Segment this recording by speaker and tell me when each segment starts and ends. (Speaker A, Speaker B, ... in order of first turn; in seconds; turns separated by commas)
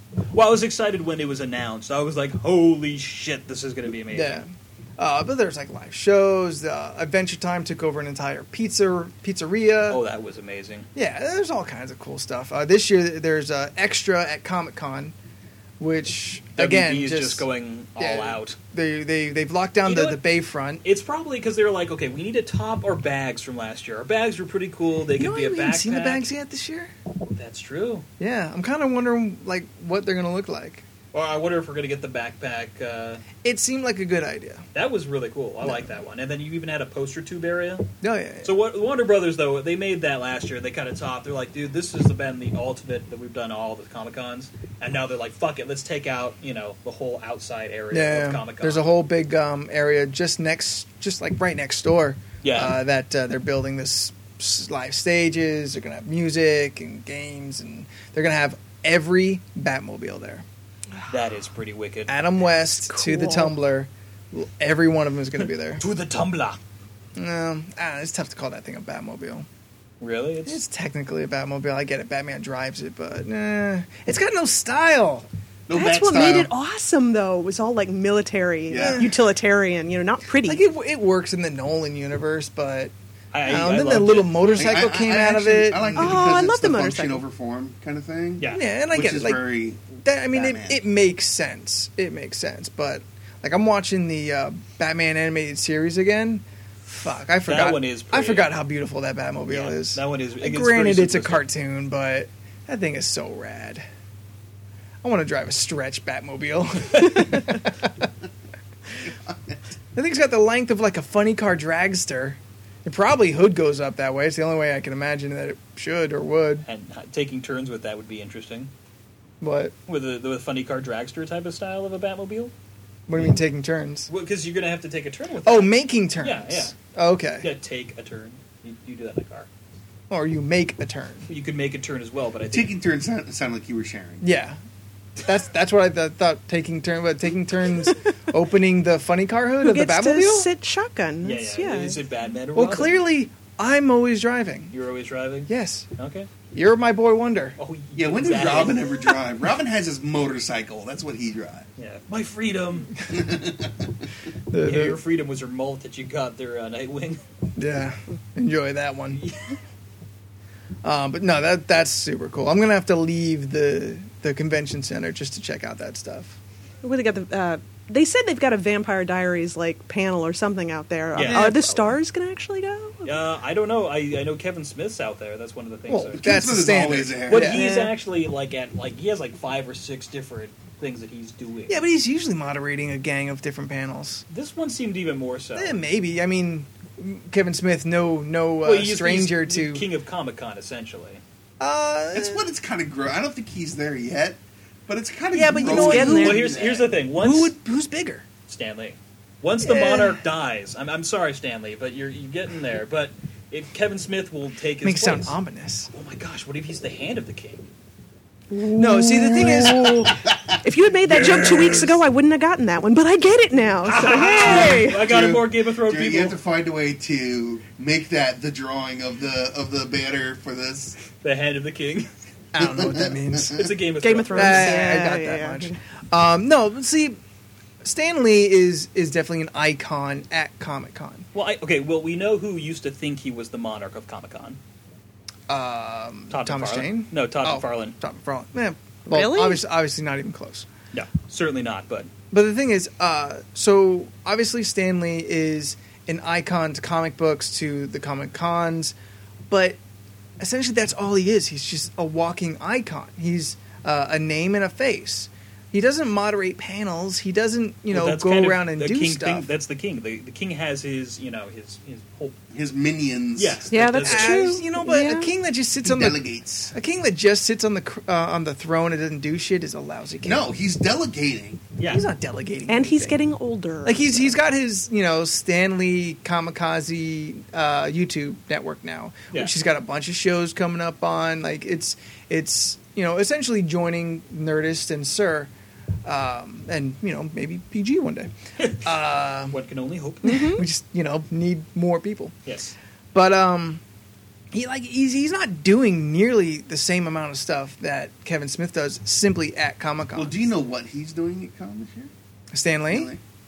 Speaker A: 0.3-4.4, Speaker B: 4.1-4.5, Speaker B: 5.0-10.0, Speaker A: 9.9-10.9, Speaker B: 10.9-15.1, Speaker B: 15.8-17.4, Speaker A: 16.6-18.6, Speaker B: 18.0-20.8, Speaker A: 19.8-20.2, Speaker A: 20.8-26.3, Speaker B: 25.1-26.9, Speaker A: 27.3-28.1, Speaker B: 28.2-30.8, Speaker A: 31.1-33.2, Speaker B: 33.4-34.6, Speaker A: 34.7-37.9, Speaker B: 38.0-38.5, Speaker A: 38.4-48.9, Speaker B: 47.9-60.4, Speaker A: 52.4-52.8, Speaker A: 61.1-62.1, Speaker B: 62.1-65.8, Speaker C: 62.9-63.5, Speaker A: 65.8-66.6, Speaker B: 67.2-69.5, Speaker A: 70.0-70.6, Speaker B: 70.5-75.3, Speaker D: 75.7-76.5, Speaker C: 75.7-80.6, Speaker D: 78.7-79.1, Speaker B: 78.7-79.1, Speaker B: 80.4-82.9, Speaker A: 83.3-84.6, Speaker B: 83.4-86.2, Speaker D: 84.5-90.8, Speaker C: 85.9-87.2, Speaker B: 88.5-89.4, Speaker B: 90.0-103.8, Speaker A: 97.5-98.5, Speaker A: 99.5-101.5, Speaker B: 105.0-108.0, Speaker D: 109.3-109.5, Speaker B: 109.9-116.7, Speaker A: 116.6-118.7, Speaker B: 119.4-119.7, Speaker A: 119.9-122.5, Speaker B: 123.1-124.1, Speaker A: 124.1-126.7, Speaker B: 125.4-127.5, Speaker A: 127.4-129.5, Speaker B: 130.1-131.3, Speaker A: 131.3-132.7, Speaker D: 132.5-134.2, Speaker B: 134.2-134.6, Speaker B: 135.2-140.5, Speaker C: 139.6-142.0, Speaker A: 141.2-143.0, Speaker B: 142.5-144.7, Speaker A: 144.7-146.3, Speaker B: 145.5-145.9, Speaker B: 146.5-147.6, Speaker A: 147.6-149.0, Speaker D: 147.9-151.7, Speaker A: 151.8-153.0, Speaker D: 153.1-153.9, Speaker B: 154.5-155.0, Speaker A: 154.6-157.2, Speaker B: 157.6-159.2, Speaker A: 159.2-159.5, Speaker B: 160.8-166.4, Speaker C: 166.8-173.1, Speaker A: 171.1-172.0, Speaker B: 171.2-171.6, Speaker A: 173.0-176.2, Speaker B: 175.9-177.7, Speaker D: 176.1-177.6, Speaker A: 177.3-181.8, Speaker C: 177.5-177.9, Speaker B: 181.7-184.2, Speaker A: 184.3-185.8, Speaker B: 185.5-189.8, Speaker A: 188.6-191.2, Speaker B: 191.6-192.4, Speaker D: 192.1-196.9, Speaker B: 195.3-196.4, Speaker C: 195.6-196.4, Speaker A: 195.7-197.5, Speaker B: 197.1-198.2, Speaker A: 198.5-205.4, Speaker B: 199.6-200.2, Speaker B: 204.8-205.9, Speaker A: 205.9-207.7, Speaker D: 208.6-210.6, Speaker C: 208.6-215.0, Speaker B: 208.7-210.1, Speaker A: 211.1-211.9, Speaker D: 211.3-211.8, Speaker A: 213.8-216.4, Speaker D: 214.3-221.0, Speaker A: 221.2-222.1, Speaker B: 222.5-223.7, Speaker D: 222.6-223.6, Speaker A: 223.5-225.0, Speaker C: 224.0-225.8, Speaker B: 224.3-227.2, Speaker B: 227.8-231.3, Speaker A: 231.3-234.6, Speaker B: 235.5-240.7, Speaker A: 236.3-238.0, Speaker C: 239.1-239.6, Speaker A: 240.9-242.1, Speaker B: 242.3-248.9, Speaker B: 249.5-249.8, Speaker B: 250.4-259.5, Speaker A: 257.9-262.4, Speaker D: 262.5-263.7, Speaker A: 263.4-264.4, Speaker C: 263.7-265.3, Speaker B: 263.9-270.5, Speaker D: 265.8-266.7, Speaker D: 270.2-271.6, Speaker A: 271.8-272.1, Speaker B: 271.9-273.2, Speaker C: 272.7-274.3, Speaker B: 273.8-285.5, Speaker B: 286.0-289.6, Speaker A: 288.6-288.9, Speaker A: 289.5-290.5, Speaker C: 290.2-290.6, Speaker B: 290.3-292.4, Speaker A: 292.4-292.7, Speaker B: 293.1-293.8, Speaker B: 294.5-300.3, Speaker D: 300.1-302.1, Speaker B: 302.5-303.1, Speaker D: 302.9-303.2